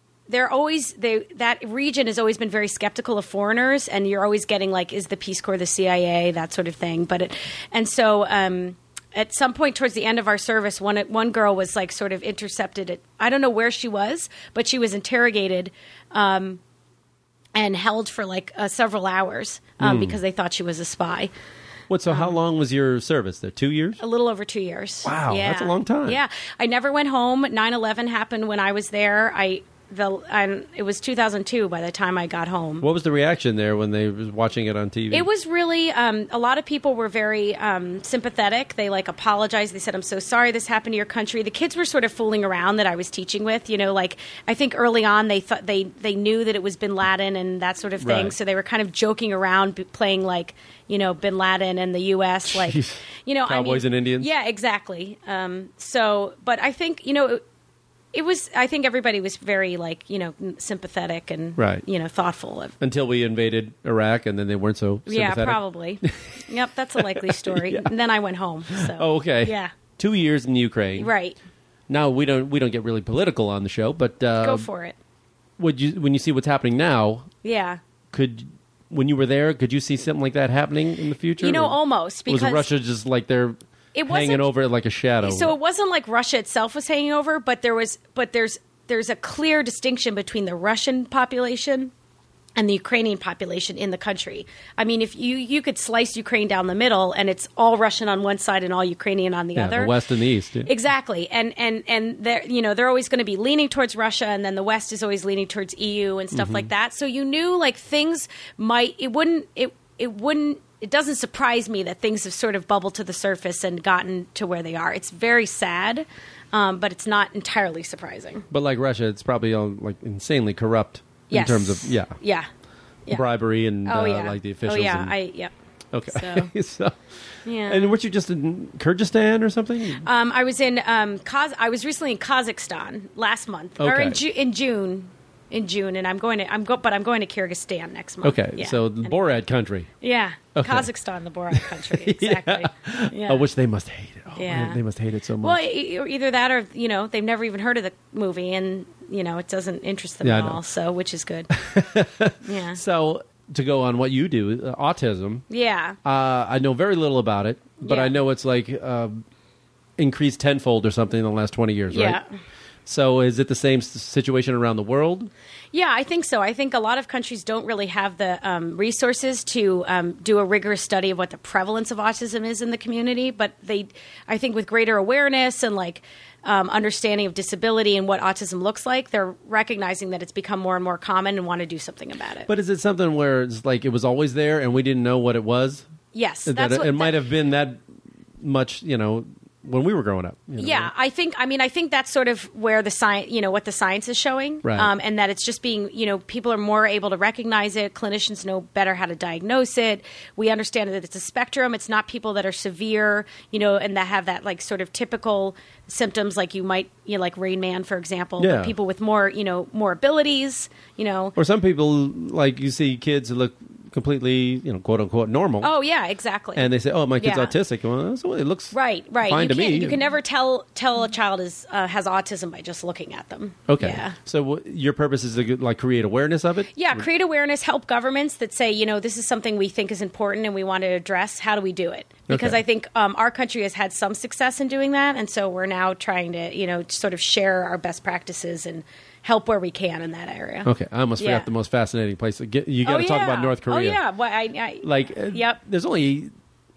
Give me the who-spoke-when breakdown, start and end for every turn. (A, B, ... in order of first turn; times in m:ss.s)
0:00.3-0:16.6 A
0:17.5-0:21.3 A
0:19.8-0:20.2 B
0:21.9-0:24.0 B
0:22.1-0:22.4 A
0:24.0-0:32.8 A
0:25.0-0:26.2 B
0:32.8-0:35.3 B
0:35.1-0:57.4 A
0:48.0-0:48.3 B
0:52.5-0:54.3 B
0:58.1-1:02.8 A
1:01.6-1:01.8 B
1:02.8-1:06.4 B
1:05.1-1:09.7 A
1:07.0-1:07.9 B
1:08.7-1:11.1 B
1:11.0-1:11.4 A
1:11.9-1:14.7 B
1:14.4-1:15.0 A
1:15.6-1:17.3 B
1:17.4-1:17.8 A
1:18.1-1:25.5 B
1:21.4-1:22.7 A
1:23.9-1:24.5 A
1:25.2-1:31.9 A
1:32.6-1:39.9 A
1:39.6-1:40.7 B
1:40.6-1:58.5 A
1:46.3-1:46.7 B
1:58.5-2:02.2 B
2:01.3-2:02.5 A
2:03.1-2:05.1 B
2:03.8-2:05.5 A
2:05.9-2:07.0 B
2:06.1-2:06.5 A
2:07.4-2:08.0 A
2:07.6-2:10.0 B
2:10.0-2:19.2 A
2:13.8-2:14.2 B
2:18.2-2:19.9 B
2:20.0-2:23.4 A
2:20.5-2:20.9 B
2:21.5-2:25.6 B
2:24.4-2:24.8 A
2:25.4-2:31.5 A
2:30.2-2:30.6 B
2:31.5-2:35.4 B
2:32.4-2:32.8 A
2:35.5-2:36.0 A
2:36.0-2:39.2 B
2:37.8-2:38.1 A
2:40.0-2:42.2 B
2:41.9-2:42.2 A
2:42.8-2:45.3 B
2:45.7-3:02.5 A
3:02.5-3:05.8 B
3:06.1-3:07.1 A
3:06.4-3:07.8 B
3:08.4-3:10.9 B
3:10.6-3:31.3 A
3:14.6-3:14.9 B
3:28.4-3:28.7 B
3:31.4-3:35.7 B
3:35.6-3:37.5 A
3:36.6-3:40.0 B
3:38.7-3:44.2 A
3:43.7-3:47.0 B
3:46.7-4:01.5 A
3:52.3-3:52.6 B
4:00.6-4:04.0 B
4:02.8-4:05.6 A
4:04.8-4:06.3 B